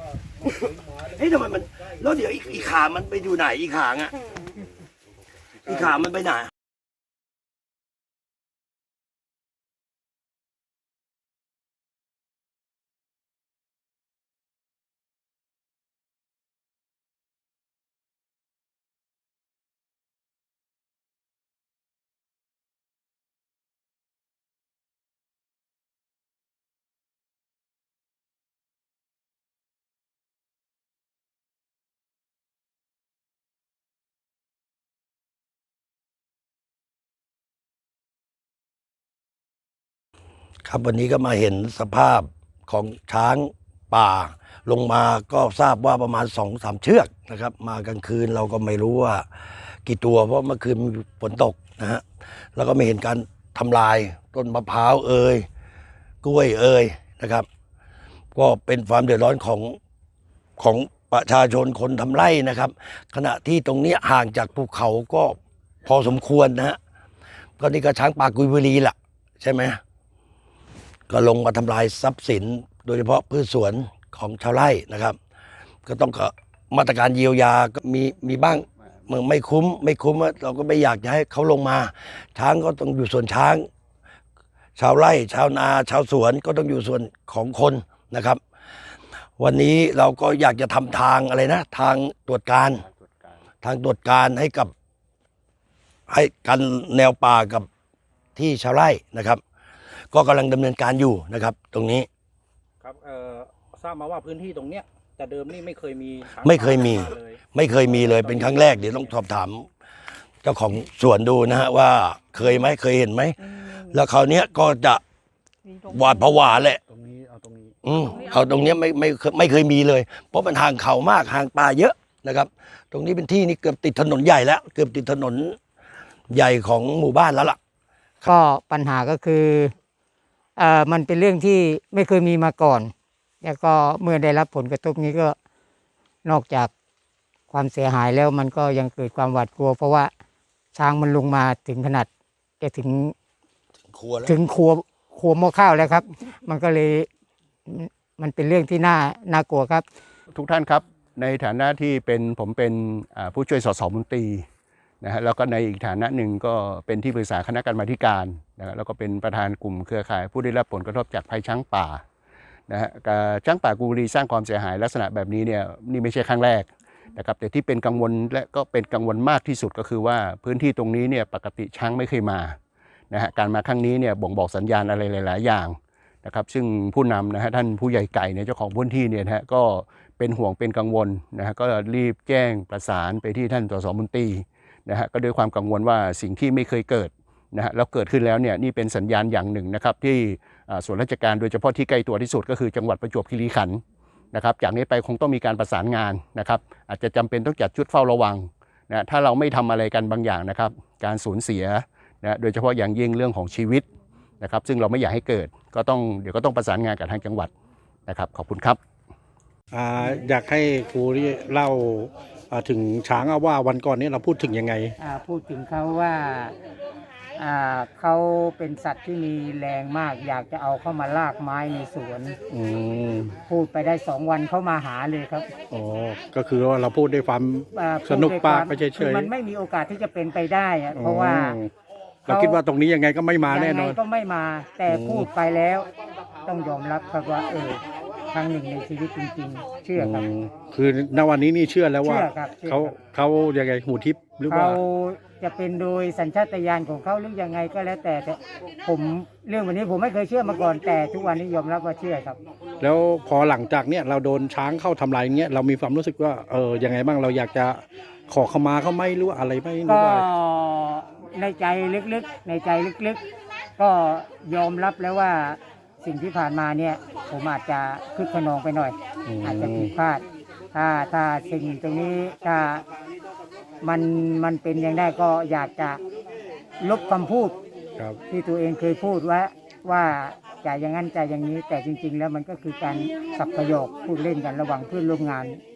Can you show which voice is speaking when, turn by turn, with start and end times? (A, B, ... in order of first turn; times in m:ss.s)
0:00.4-0:04.1 A
0:05.6-0:06.5 A
0:40.6-0:49.2 A
0:49.8-0:52.0 A
0:52.6-0:55.5 A
0:56.2-0:57.4 A
0:58.3-0:59.8 A
1:00.6-1:06.8 A
1:07.6-1:09.8 A
1:11.1-1:15.2 A
1:15.8-1:23.7 A
1:18.6-1:19.1 B
1:24.8-1:28.4 A
1:29.4-1:32.8 A
1:32.7-1:33.4 B
1:33.6-1:34.7 A
1:36.1-1:37.7 A
1:38.3-1:39.4 A
1:40.1-1:42.1 A
1:42.8-1:49.2 C
1:46.4-1:49.7 A
1:50.4-1:55.0 A
1:55.9-1:56.8 A
1:56.9-1:57.8 C
1:57.8-2:05.6 A
2:06.3-2:07.6 A
2:08.3-2:09.7 D
2:10.6-2:12.9 D
2:13.4-2:15.4 D
2:16.2-2:16.7 D
2:17.5-2:20.1 D
2:20.7-2:22.1 D
2:22.6-2:23.1 D
2:23.9-2:24.4 A
2:24.2-2:27.1 D
2:27.7-2:29.8 D
2:30.3-2:34.4 B
2:35.0-2:42.0 B
2:42.7-2:52.6 B
2:53.1-3:13.8 B
3:14.3-3:23.8 B
3:24.4-3:27.5 B
3:28.1-3:28.8 B
3:29.7-3:34.9 C
3:35.0-3:36.5 D
3:37.4-3:42.4 D
3:42.5-3:43.4 C
3:43.5-3:45.5 D
3:45.7-3:49.3 C
3:47.7-3:51.6 D
3:50.9-3:51.7 C
3:52.3-3:54.0 C
3:52.3-3:52.6 D
3:53.5-3:55.9 D
3:54.9-3:55.3 C
3:56.4-4:00.2 D
4:00.0-4:04.8 C
4:02.0-4:03.0 D
4:04.5-4:12.4 D
4:12.8-4:20.3 C
4:19.8-4:23.2 D
4:23.8-4:32.8 D
4:29.2-4:29.9 C
4:33.8-4:36.0 D
4:36.8-4:37.6 D
4:38.3-4:45.6 D